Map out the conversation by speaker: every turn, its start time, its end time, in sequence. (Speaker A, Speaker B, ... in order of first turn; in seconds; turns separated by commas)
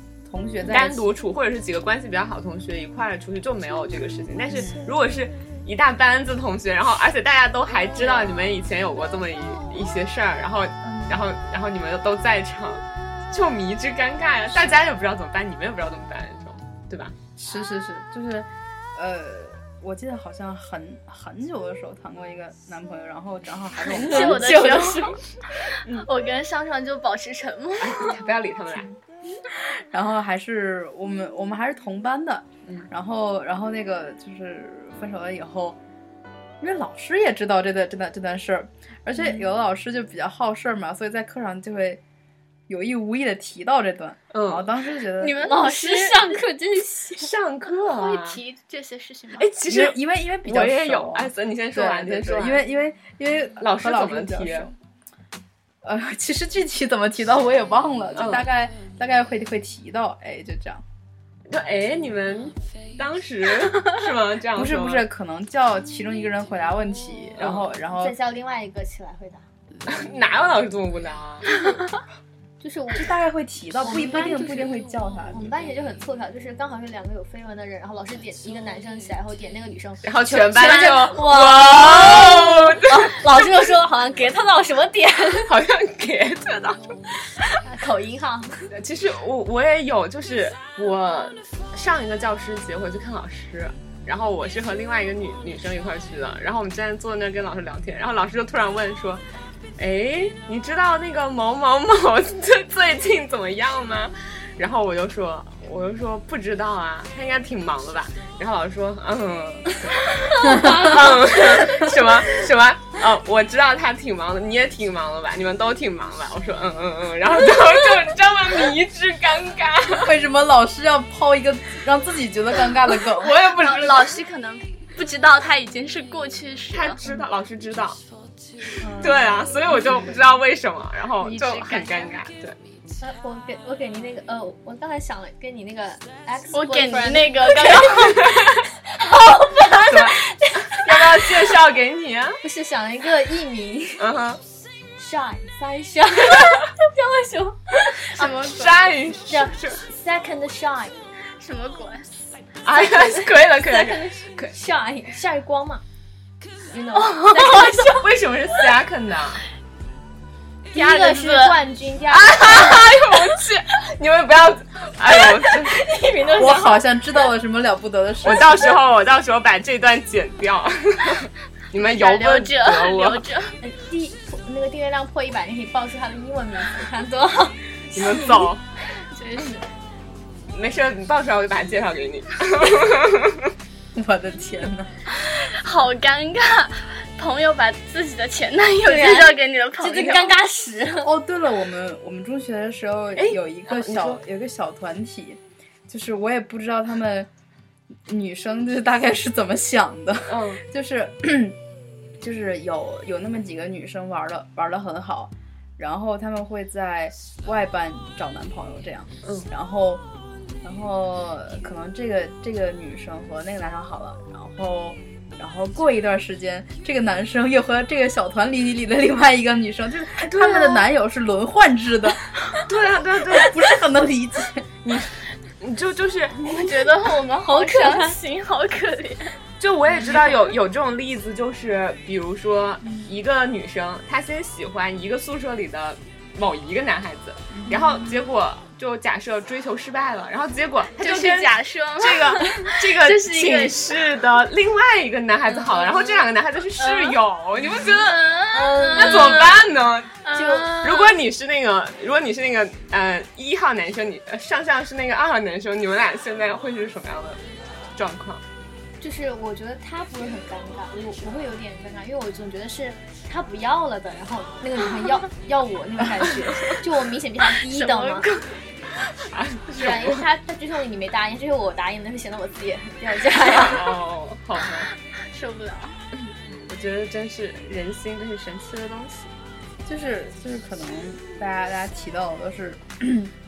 Speaker A: 0.3-1.1, Speaker B: 0.6-17.1, Speaker A: 17.4-24.6, Speaker C: 23.9-28.2, Speaker D: 24.0-25.2, Speaker B: 27.8-28.9, Speaker A: 29.8-35.8, Speaker A: 36.6-42.0, Speaker A: 42.7-45.4, Speaker B: 44.3-44.7, Speaker C: 45.2-46.4, Speaker D: 45.4-47.3, Speaker B: 47.2-48.4, Speaker C: 47.9-49.5, Speaker B: 49.4-52.6, Speaker A: 49.7-54.7, Speaker B: 53.6-54.7, Speaker A: 55.8-60.8, Speaker B: 58.1-58.5, Speaker B: 61.5-65.0, Speaker A: 64.5-68.2, Speaker B: 67.4-67.7, Speaker D: 68.0-69.4, Speaker B: 69.8-71.5, Speaker D: 72.6-73.1, Speaker A: 72.9-75.5, Speaker D: 73.8-74.7, Speaker D: 75.3-85.5, Speaker B: 80.0-83.1, Speaker B: 85.5-86.9, Speaker D: 87.6-88.5, Speaker B: 88.7-99.2, Speaker B: 99.8-120.1, Speaker D: 110.3-111.7, Speaker A: 110.5-110.8, Speaker A: 120.0-123.5, Speaker B: 123.1-124.2, Speaker C: 123.5-127.0, Speaker B: 126.7-128.0, Speaker D: 128.8-129.3, Speaker B: 129.0-132.6, Speaker C: 131.2-132.2, Speaker D: 133.0-138.3, Speaker C: 136.5-138.3, Speaker D: 139.0-141.4, Speaker B: 139.9-142.4, Speaker D: 142.4-144.1, Speaker B: 144.0-144.4, Speaker D: 145.0-146.7, Speaker C: 146.8-148.9, Speaker D: 147.9-148.2, Speaker B: 148.2-149.8, Speaker D: 149.3-151.0, Speaker C: 151.4-152.1, Speaker B: 152.6-154.5, Speaker D: 153.6-155.8, Speaker D: 156.7-158.0, Speaker C: 156.9-157.9, Speaker B: 157.8-159.4, Speaker C: 160.7-161.6, Speaker D: 160.7-162.8, Speaker B: 162.1-165.8, Speaker D: 165.1-166.8, Speaker A: 166.3-168.6, Speaker B: 168.2-173.2, Speaker C: 171.7-173.6, Speaker D: 173.6-178.5, Speaker B: 177.9-178.6, Speaker C: 179.1-179.6, Speaker B: 180.5-183.5, Speaker A: 183.9-184.9, Speaker C: 185.1-190.3, Speaker D: 188.8-191.1, Speaker A: 191.0-197.3, Speaker B: 193.2-194.2, Speaker A: 198.1-201.6, Speaker B: 200.3-200.6, Speaker A: 202.2-210.0, Speaker A: 210.6-222.2, Speaker B: 220.2-220.8, Speaker B: 222.7-223.6, Speaker A: 223.3-224.7, Speaker B: 224.8-226.7, Speaker C: 226.4-229.4, Speaker D: 227.4-228.2, Speaker B: 229.6-248.3, Speaker A: 237.5-238.1, Speaker C: 241.0-243.9, Speaker C: 245.6-246.2, Speaker C: 246.8-247.2, Speaker C: 247.7-249.7, Speaker D: 248.5-249.6, Speaker B: 248.9-250.1, Speaker C: 250.2-251.2, Speaker D: 250.3-250.8, Speaker B: 250.8-257.4, Speaker B: 257.9-258.4, Speaker D: 259.0-268.3, Speaker C: 267.4-268.5, Speaker B: 269.1-270.2, Speaker D: 269.8-273.9, Speaker B: 273.5-274.9, Speaker C: 274.9-276.0, Speaker B: 276.7-279.3, Speaker A: 279.8-283.3